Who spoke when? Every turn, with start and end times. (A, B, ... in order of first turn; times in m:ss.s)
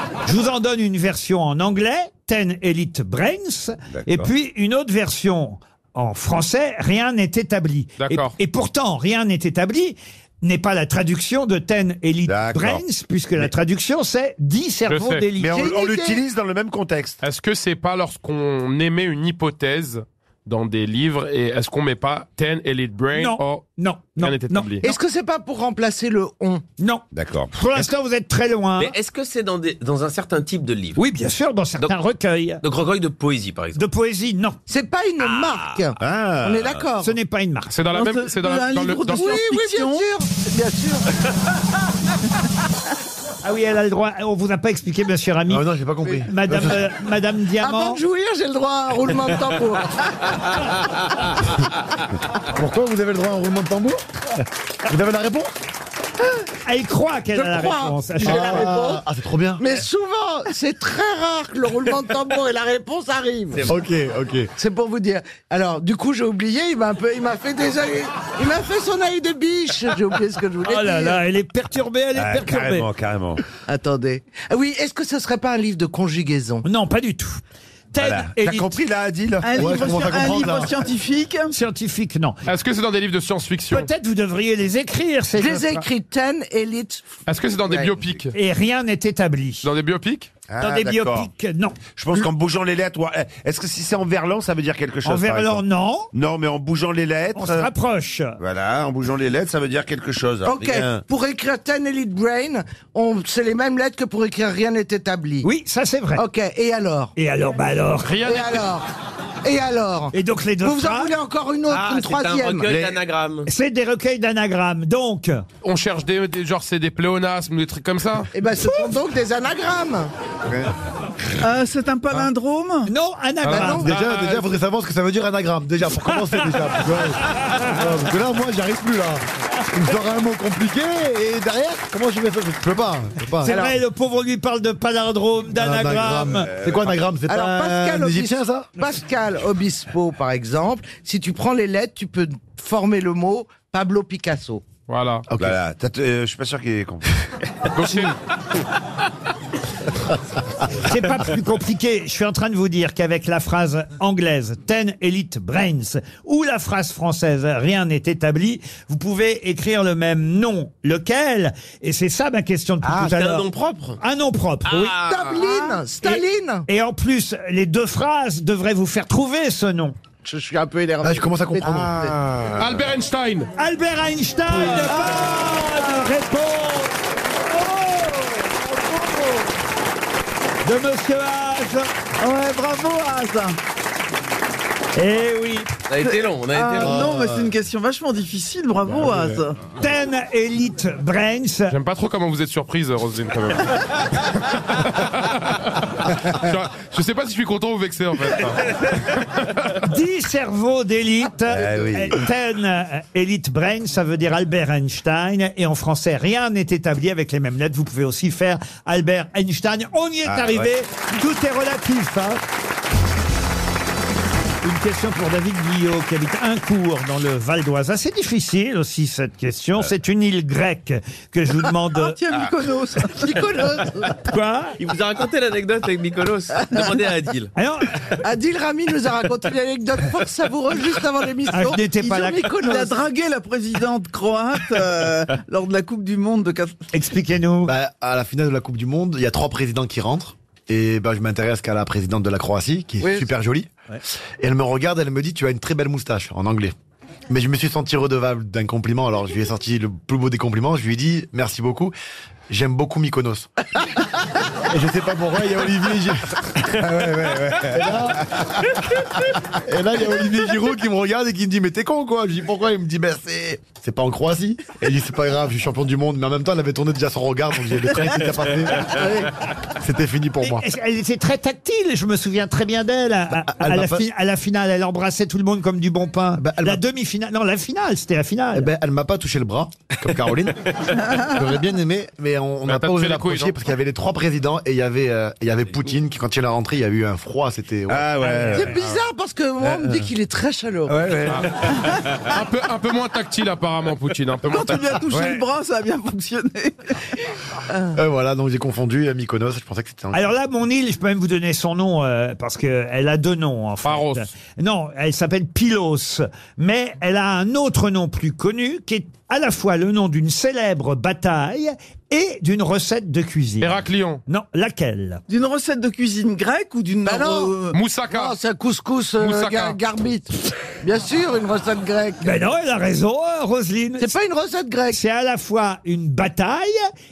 0:00.3-0:15.6 A
0:03.9-0:04.3 B
0:08.0-0:08.4 C
0:12.3-0:12.8 B
0:14.9-0:15.3 C
0:15.4-0:17.2 B
0:15.5-0:16.2 D
0:17.2-0:23.6 C
0:23.2-0:24.8 A
0:24.2-0:24.9 C
0:24.8-0:26.6 D
0:26.8-0:28.9 A
0:27.1-0:27.8 B
0:28.8-0:31.0 E
0:31.0-0:32.6 A
0:32.6-0:33.8 E
0:33.8-0:34.6 A
0:34.7-0:37.1 D
0:35.2-0:35.8 E
0:36.0-0:36.9 B
0:37.0-0:37.8 A
0:37.7-0:39.3 C
0:37.9-0:40.1 F
0:39.1-0:41.1 D
0:43.4-0:45.6 A
0:45.5-0:46.8 G
0:46.2-0:48.0 A
0:47.6-0:50.0 D
0:52.5-0:54.0 G
0:54.9-0:55.5 G
0:56.7-0:58.7 A
0:57.3-0:59.0 D
0:58.2-0:59.8 G
0:59.6-1:03.7 D
1:03.7-1:04.5 G
1:04.6-1:11.2 D
1:10.7-1:12.9 A
1:12.2-1:13.4 B
1:13.7-1:16.6 D
1:16.6-1:17.4 A
1:17.9-1:18.8 A
1:18.0-1:19.8 B
1:19.4-1:21.6 F
1:19.5-1:20.8 G
1:21.5-1:22.4 A
1:22.5-1:23.9 C
1:23.7-1:25.8 A
1:25.4-1:27.1 D
1:27.3-1:28.3 C
1:27.7-1:28.0 D
1:28.3-1:29.7 A
1:29.6-1:30.3 C
1:30.5-1:31.3 B
1:30.6-1:32.3 A
1:32.0-1:35.6 B
1:35.0-1:36.1 A
1:36.1-1:37.7 B
1:37.4-1:38.4 A
1:38.4-1:41.0 B
1:40.4-1:45.5 D
1:45.4-1:46.2 A
1:46.2-1:47.1 D
1:47.2-1:48.2 A
1:48.0-1:48.7 C
1:48.2-1:48.9 D
1:49.4-1:52.8 D
1:50.1-1:51.1 A
1:51.7-1:53.5 E
1:52.7-1:53.0 B
1:53.4-1:55.4 A
1:55.6-1:58.3 C
1:58.3-2:00.1 D
1:58.6-1:58.9 A
2:01.4-2:02.9 F
2:02.9-2:03.9 A
2:03.4-2:04.5 C
2:03.5-2:03.9 D
2:03.8-2:13.6 G
2:13.4-2:13.8 D
2:13.4-2:16.5 A
2:15.5-2:18.8 G
2:16.5-2:17.0 B
2:17.3-2:24.6 D
2:24.9-2:25.2 C
2:25.3-2:25.6 G
2:25.3-2:27.2 B
2:27.7-2:28.2 C
2:30.8-2:43.5 A
2:42.8-2:44.0 E
2:44.0-2:45.0 A
2:44.6-2:45.7 E
2:45.0-2:46.7 D
2:46.0-2:50.0 A
2:50.2-2:52.2 D
2:51.0-2:52.2 G
2:52.2-2:52.7 B
2:52.6-2:53.5 C
2:53.6-2:58.5 A
2:54.7-2:55.8 F
3:00.6-3:01.9 A
3:02.2-3:03.6 F
3:05.0-3:05.7 A
3:05.9-3:07.1 E
3:06.0-3:09.7 F
3:06.8-3:07.4 G
3:09.8-3:11.8 A
3:11.7-3:14.0 C
3:14.6-3:15.7 C
3:16.3-3:19.7 C
3:19.8-3:32.4 A
3:21.5-3:22.2 B
3:30.3-3:30.7 B
3:34.6-3:42.2 A
3:41.9-3:43.5 F
3:43.0-3:44.2 D
3:44.2-3:44.8 A
3:44.8-3:47.5 E
3:47.6-3:48.0 A
3:48.2-3:53.1 D
3:51.5-3:52.5 A
3:52.6-3:56.8 F
3:56.9-3:57.7 A
3:57.6-4:03.7 G
4:04.4-4:06.7 G
4:07.3-4:11.9 G
4:12.5-4:13.5 G
4:14.7-4:18.8 G
4:16.8-4:18.0 B
4:19.5-4:29.3 G
4:29.8-4:30.6 G
4:30.4-4:38.7 A
4:33.5-4:34.0 G
4:36.4-4:36.8 G
4:38.6-4:48.6 G
4:41.0-4:41.3 F
4:42.7-4:43.5 C
4:47.9-4:48.9 B
4:48.5-4:51.1 D
4:49.6-4:50.0 B
4:50.9-4:51.6 B
4:51.3-4:55.0 C
4:54.5-4:57.0 F
4:55.1-4:55.4 B
4:57.9-5:00.3 G
5:00.1-5:13.8 A
5:03.8-5:04.3 C
5:13.6-5:14.2 C
5:14.3-5:15.2 A
5:15.3-5:17.8 F
5:17.0-5:17.6 D
5:17.7-5:18.4 C
5:18.1-5:22.4 D
5:19.2-5:19.8 C
5:22.2-5:24.1 A
5:24.0-5:25.0 D
5:24.9-5:26.8 A